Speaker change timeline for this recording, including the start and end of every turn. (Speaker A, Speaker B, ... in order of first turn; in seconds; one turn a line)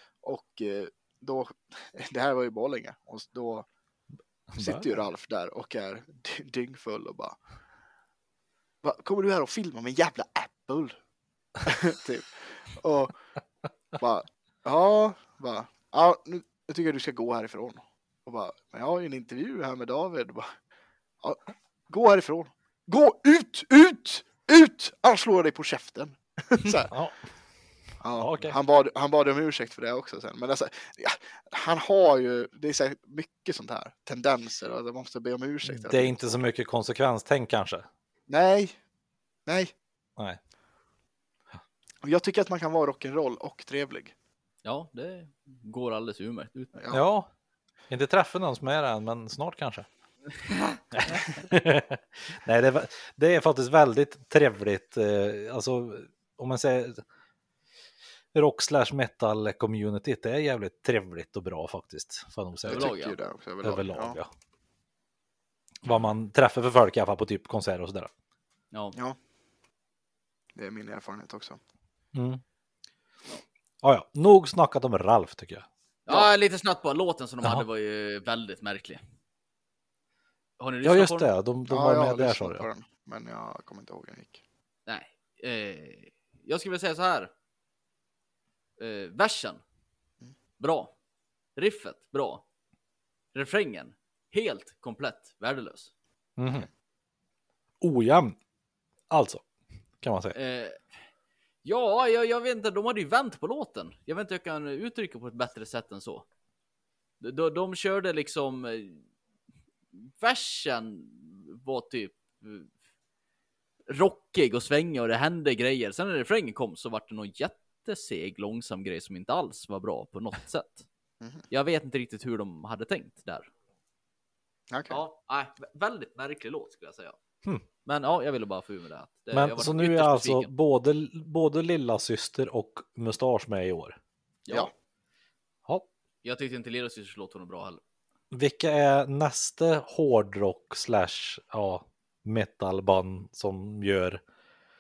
Speaker A: 0.2-3.6
Speaker B: 4.5-4.9
Speaker A: 4.6-7.4
Speaker A: 8.8-10.9
Speaker A: 11.6-13.1
Speaker A: 13.9-20.5
Speaker A: 21.2-26.9
Speaker B: 26.9-27.2
Speaker A: 28.0-36.4
Speaker B: 28.1-28.6
Speaker B: 35.6-37.9
Speaker A: 38.3-38.8
Speaker A: 39.5-39.7
Speaker A: 42.0-44.1
Speaker C: 44.6-46.7
Speaker A: 46.8-47.0
Speaker B: 46.9-47.3
Speaker B: 47.9-49.9
Speaker B: 50.9-57.0
Speaker B: 58.3-62.9
Speaker C: 62.6-63.1
Speaker A: 62.7-64.2
Speaker B: 63.6-64.3
Speaker B: 65.8-68.1
Speaker A: 70.5-71.6
Speaker B: 72.1-72.4
Speaker B: 73.8-75.7
Speaker C: 76.0-79.0
Speaker C: 80.6-81.3
Speaker B: 80.8-82.6
Speaker A: 81.7-84.4
Speaker C: 84.9-87.3
Speaker C: 88.8-89.6
Speaker C: 90.6-90.9
Speaker C: 91.5-92.4
Speaker C: 93.3-95.9
Speaker B: 96.4-96.7
Speaker B: 97.8-98.4
Speaker B: 99.1-99.4
Speaker B: 100.0-100.3
Speaker C: 100.3-100.9
Speaker C: 101.6-106.2
Speaker C: 107.2-109.0
Speaker C: 110.2-112.7
Speaker C: 113.9-120.8
Speaker C: 121.5-123.5
Speaker A: 124.7-125.0
Speaker C: 124.9-127.2
Speaker C: 127.8-130.5
Speaker B: 129.3-134.0
Speaker C: 134.4-134.7
Speaker C: 136.2-137.8
Speaker B: 138.3-144.2